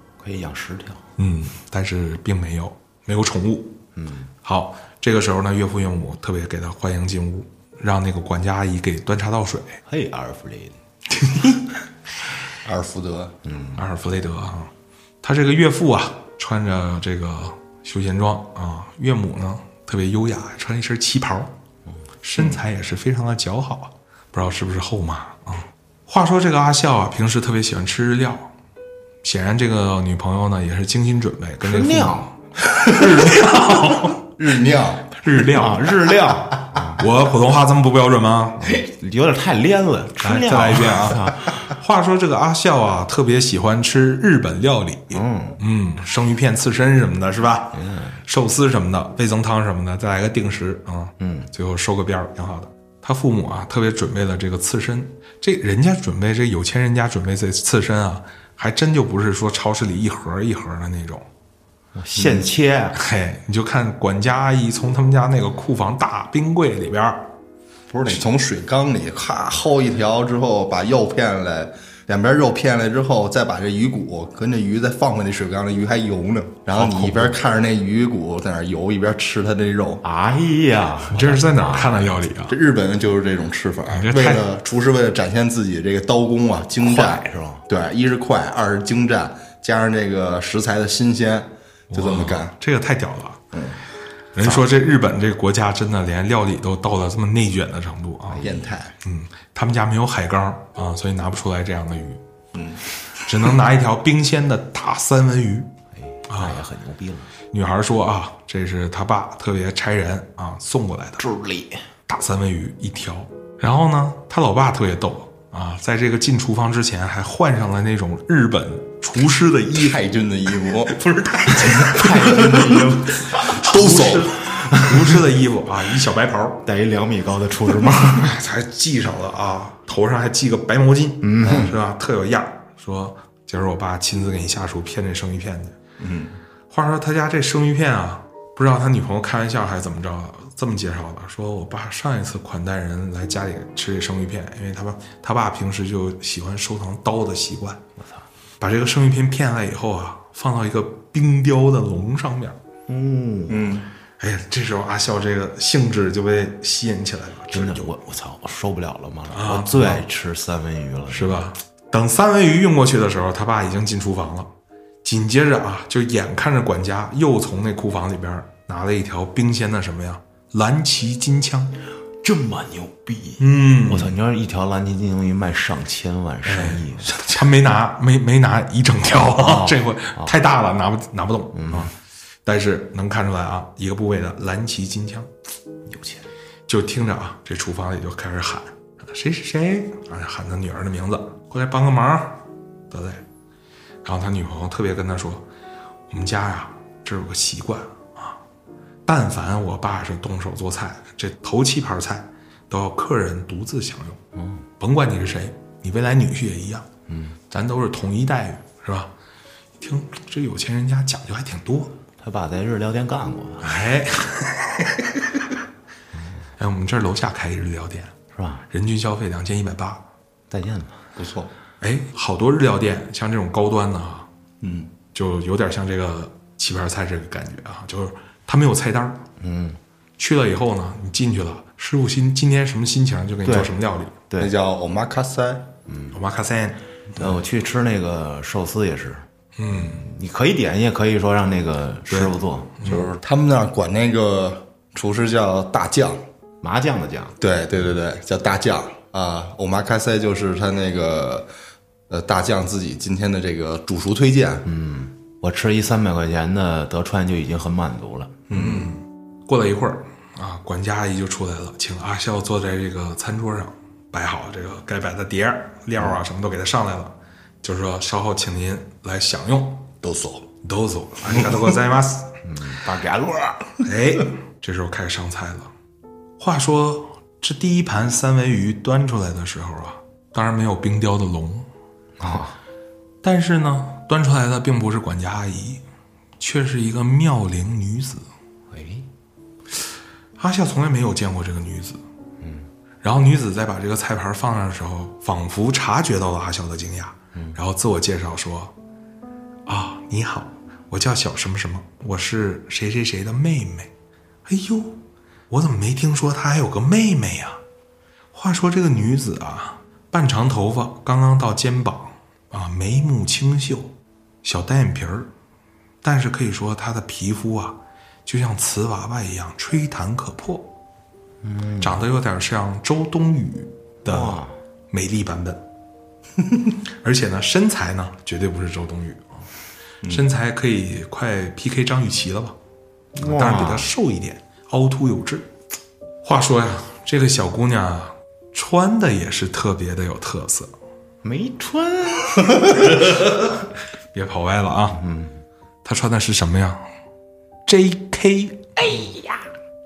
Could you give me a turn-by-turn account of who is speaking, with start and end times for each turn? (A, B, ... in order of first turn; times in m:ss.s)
0:00.2-0:01.1 A
0:01.2-0:03.8 B
0:04.0-0:04.3 A
0:04.4-0:09.8 B
0:09.8-0:10.8 A
0:11.1-0:11.7 B
0:12.6-0:13.4 C
0:13.4-0:13.8 A
0:13.8-0:21.6 B
0:22.2-0:28.5 B
0:29.2-0:34.3 B
0:31.6-0:32.3 A
0:32.8-0:33.2 C
0:34.4-0:35.1 C
0:35.1-0:36.3 B
0:35.4-0:37.0 A
0:36.9-0:38.8 B
0:38.6-0:41.7 A
0:40.2-1:01.3 B
0:45.1-0:45.6 A
0:47.7-0:48.2 A
0:51.2-0:51.5 A
1:02.0-1:03.0 A
1:02.2-1:02.4 C
1:03.0-1:07.3 B
1:07.9-1:20.0 C
1:16.8-1:17.3 B
1:20.0-1:22.2 A
1:21.1-1:22.6 B
1:22.5-1:32.6 C
1:23.9-1:24.5 B
1:26.8-1:27.6 A
1:31.9-1:33.4 B
1:33.5-1:33.8 C
1:34.3-1:42.2 B
1:38.3-1:38.7 A
1:38.4-1:39.0 C
1:42.5-1:42.8 C
1:43.2-1:45.7 B
1:46.0-1:47.3 A
1:46.3-1:46.6 B
1:47.5-1:51.2 B
1:51.2-1:51.8 A
1:52.1-2:00.0 B
1:59.8-2:01.0 C
2:00.9-2:02.5 B
2:01.5-2:05.2 A
2:02.2-2:04.3 C
2:03.5-2:06.6 B
2:06.6-2:08.4 A
2:08.1-2:15.8 B
2:11.2-2:11.7 A
2:11.4-2:11.7 C
2:16.0-2:16.4 C
2:16.7-2:27.8 B
2:28.0-2:28.3 A
2:28.6-2:32.6 B
2:32.9-2:33.7 A
2:33.5-2:33.9 C
2:34.2-2:37.9 B
2:37.5-2:41.4 A
2:39.3-2:40.1 B
2:41.1-2:44.5 B
2:45.0-2:51.8 B
2:52.2-2:57.2 A
2:53.4-2:54.2 B
2:56.4-3:01.9 B
2:59.4-3:00.3 A
3:01.5-3:01.9 A
3:02.5-3:05.3 B
3:05.9-3:06.3 A
3:06.7-3:13.2 B
3:14.0-3:15.5 B
3:16.1-3:18.4 B
3:19.1-3:24.2 B
3:24.4-3:24.6 A
3:24.8-3:26.9 B
3:27.1-3:27.4 A
3:27.5-3:29.1 B
3:29.8-3:32.0 B
3:32.2-3:33.8 A
3:33.6-3:35.6 B
3:36.6-3:38.2 B
3:38.3-3:38.6 A
3:38.7-3:40.1 B
3:40.5-3:41.1 A
3:41.2-3:41.5 C
3:41.8-3:44.3 B
3:44.6-3:44.9 C
3:45.1-3:49.3 B
3:49.4-3:49.8 A
3:50.2-3:54.2 B
3:53.4-3:53.7 A
3:54.4-3:55.7 C
3:55.9-3:56.2 A
3:56.1-3:56.8 B
3:57.2-4:03.0 A
3:59.6-4:00.0 B
4:02.1-4:03.0 B
4:02.8-4:06.2 C
4:06.6-4:07.4 A
4:07.4-4:11.5 C
4:12.1-4:14.7 C
4:14.6-4:18.4 A
4:18.5-4:18.9 C
4:18.5-4:29.9 B
4:30.0-4:30.5 C
4:30.6-4:32.4 B
4:32.4-4:33.7 A
4:33.8-4:35.7 B
4:36.4-4:41.7 B
4:42.2-4:42.6 A
4:43.2-4:45.8 B
4:46.4-4:48.3 B
4:48.7-4:49.1 A
4:50.4-4:52.0 B
4:52.4-4:52.7 A
4:53.0-4:58.7 B
4:59.7-5:03.9 B
5:04.5-5:07.6 B
5:08.3-5:15.3 B
5:16.0-5:20.7 B
5:21.4-5:22.0 A
5:21.8-5:25.7 B
5:24.0-5:24.6 A
5:27.0-5:29.5 B
5:30.0-5:32.6 B
5:33.2-5:33.9 A
5:33.2-5:35.5 B
5:36.2-5:40.7 B
5:41.2-5:42.7 A
5:42.9-5:45.0 B
5:45.0-5:45.4 A
5:45.8-5:46.9 B
5:47.7-5:48.7 B
5:48.8-5:49.4 A